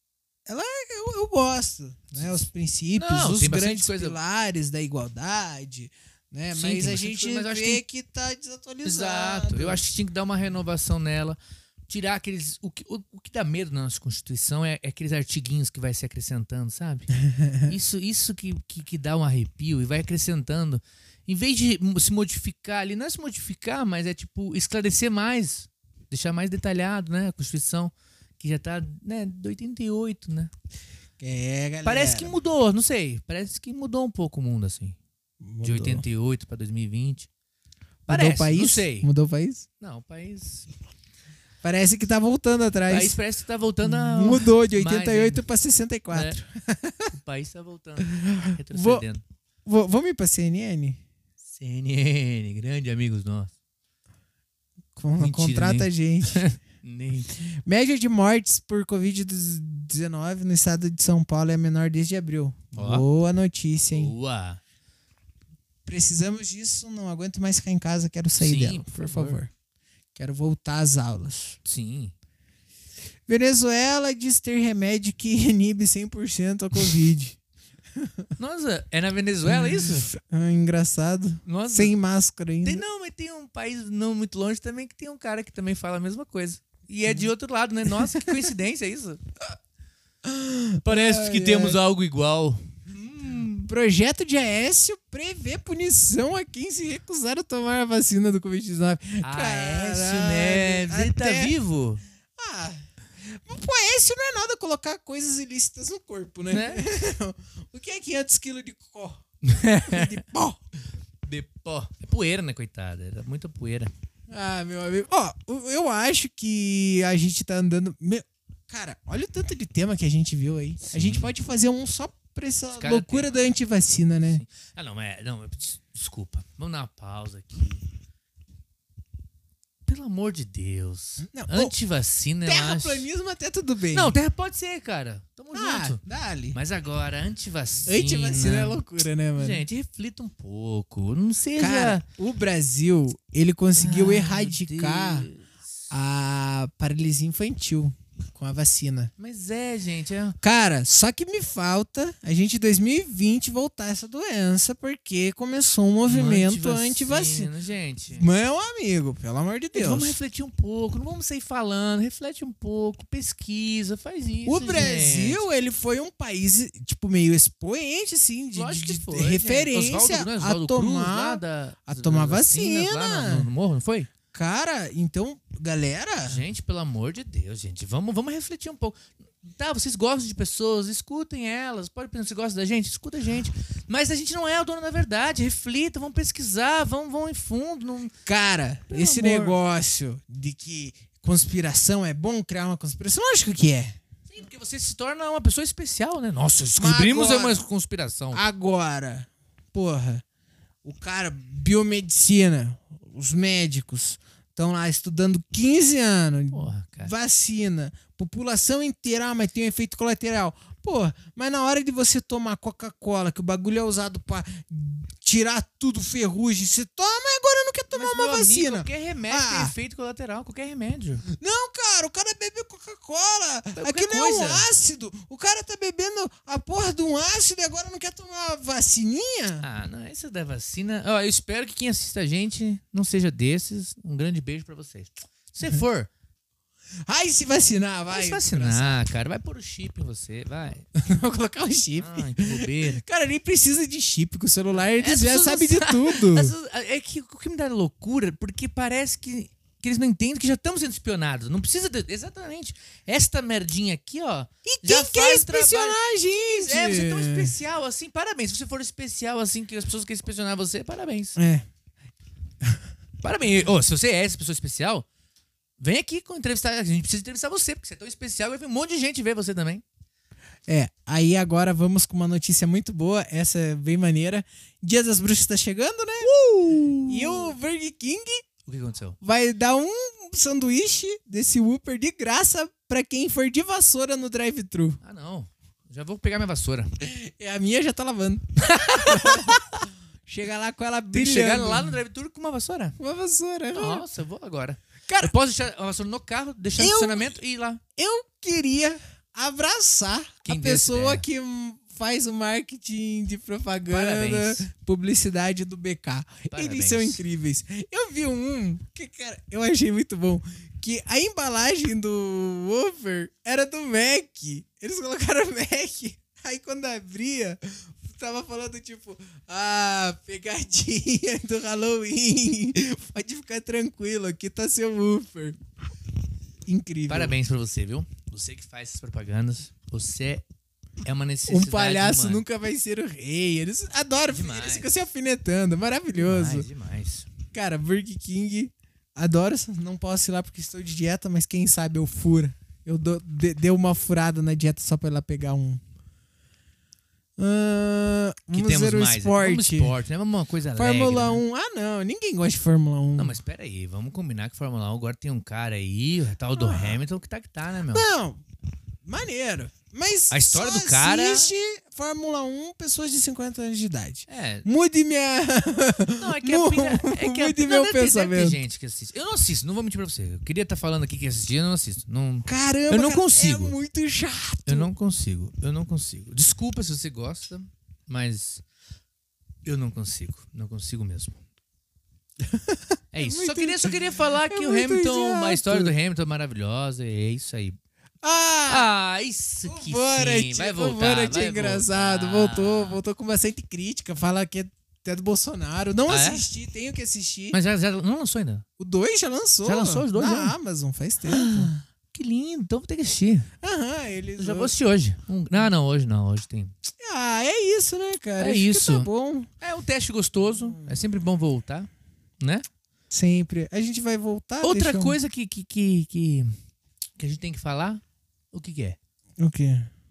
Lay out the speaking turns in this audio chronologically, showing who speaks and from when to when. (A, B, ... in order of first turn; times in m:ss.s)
0:00.5-0:09.8 A
0:02.1-0:02.4 B
0:03.0-0:04.2 B
0:06.5-0:07.8 B
0:08.8-0:17.1 B
0:17.3-0:17.6 A
0:17.6-0:30.5 B
0:31.2-0:32.3 A
0:31.8-0:35.0 B
0:35.4-0:36.0 A
0:35.6-0:37.3 B
0:38.1-0:39.7 A
0:38.1-0:39.1 B
0:39.8-0:40.7 B
0:41.6-0:43.2 A
0:42.9-0:45.4 B
0:43.8-0:47.2 A
0:46.1-0:46.4 B
0:47.1-0:49.2 B
0:48.0-0:49.1 A
0:49.7-0:51.0 A
0:51.5-0:53.5 B
0:55.0-0:56.4 A
0:55.2-0:57.3 B
0:57.5-1:04.1 A
1:02.8-1:03.1 B
1:03.9-1:04.6 B
1:05.8-1:09.5 A
1:08.4-1:09.4 B
1:10.2-1:11.6 A
1:11.6-1:12.1 B
1:13.3-1:17.4 A
1:18.0-1:18.3 A
1:18.4-1:20.1 B
1:19.5-1:22.8 A
1:21.5-1:21.9 B
1:22.6-1:29.2 B
1:27.9-1:28.4 A
1:30.2-1:31.8 A
1:30.8-1:33.7 B
1:33.7-1:41.6 A
1:39.2-1:42.0 B
1:42.4-1:50.6 A
1:46.5-1:46.9 B
1:49.4-1:50.2 B
1:51.2-1:53.9 B
1:54.3-2:04.4 A
2:00.8-2:01.3 B
2:02.7-2:03.5 B
2:04.2-2:07.8 B
2:09.9-2:13.1 B
2:11.2-2:11.7 A
2:12.5-2:14.2 A
2:13.9-2:16.0 B
2:15.5-2:16.6 A
2:16.5-2:18.8 B
2:17.9-2:19.7 A
2:19.4-2:22.0 B
2:21.6-2:25.3 A
2:23.8-2:25.5 B
2:25.9-2:29.1 A
2:29.2-2:30.4 B
2:30.4-2:37.5 A
2:36.1-2:38.3 B
2:38.2-2:40.2 A
2:39.8-2:45.5 B
2:44.4-2:53.5 A
2:48.6-2:54.1 B
2:54.3-2:56.4 A
2:56.2-3:08.1 B
3:08.3-3:14.0 A
3:08.9-3:09.6 B
3:14.3-3:18.4 B
3:16.8-3:17.6 A
3:18.3-3:20.2 A
3:20.8-3:39.8 A
3:26.5-3:27.1 B
3:37.9-3:41.2 B
3:41.3-3:49.6 A
3:43.8-3:44.7 B
3:49.6-3:56.1 B
3:57.1-3:59.0 A
3:58.1-4:00.9 B
4:01.0-4:06.5 A
4:02.0-4:03.0 B
4:04.9-4:21.4 B
4:14.6-4:17.6 A
4:21.4-4:21.7 A
4:23.2-4:25.1 B
4:25.8-4:29.8 B
4:30.7-4:36.3 A
4:36.2-4:37.6 B
4:37.1-4:38.4 A
4:38.7-4:39.2 B
4:39.2-4:45.0 A
4:45.0-4:46.9 B
4:47.0-4:52.0 A
4:48.6-4:49.7 B
4:51.1-4:53.0 B
4:53.0-4:54.0 A
4:53.7-4:57.8 B
4:55.1-4:55.3 A
4:56.8-4:57.4 A
4:58.0-5:25.6 A
5:00.5-5:01.2 B
5:03.9-5:04.7 B
5:06.5-5:07.2 B
5:26.7-5:27.4 A
5:27.1-5:30.4 B
5:31.0-5:32.4 B
5:31.5-5:36.7 A
5:34.3-5:34.9 B
5:36.2-5:37.3 B
5:37.5-5:45.8 A
5:47.4-5:50.0 A
5:48.5-5:51.4 B
5:50.8-5:53.4 A
5:53.2-5:58.0 B
5:56.6-5:57.0 A
5:57.9-5:58.4 A
5:59.0-6:08.6 A
6:00.3-6:01.5 B
6:04.3-6:04.7 B
6:06.2-6:13.8 B
6:12.5-6:14.9 A
6:14.7-6:18.6 B
6:19.6-6:21.4 B
6:22.4-6:25.9 A
6:23.1-6:27.8 B
6:28.2-6:28.9 A
6:28.7-6:33.0 B
6:29.7-6:37.6 A
6:36.1-6:36.4 B
6:37.5-6:38.6 B
6:38.8-6:41.8 A
6:39.6-6:40.6 B
6:41.2-6:43.5 B
6:43.6-6:44.7 A
6:44.4-6:46.8 B
6:47.0-6:49.5 A
6:48.4-6:49.1 B
6:49.6-6:52.7 B
6:50.4-6:51.0 A
6:53.1-6:55.2 A
6:54.6-6:56.5 B
6:57.2-6:59.0 B
6:59.4-6:59.9 A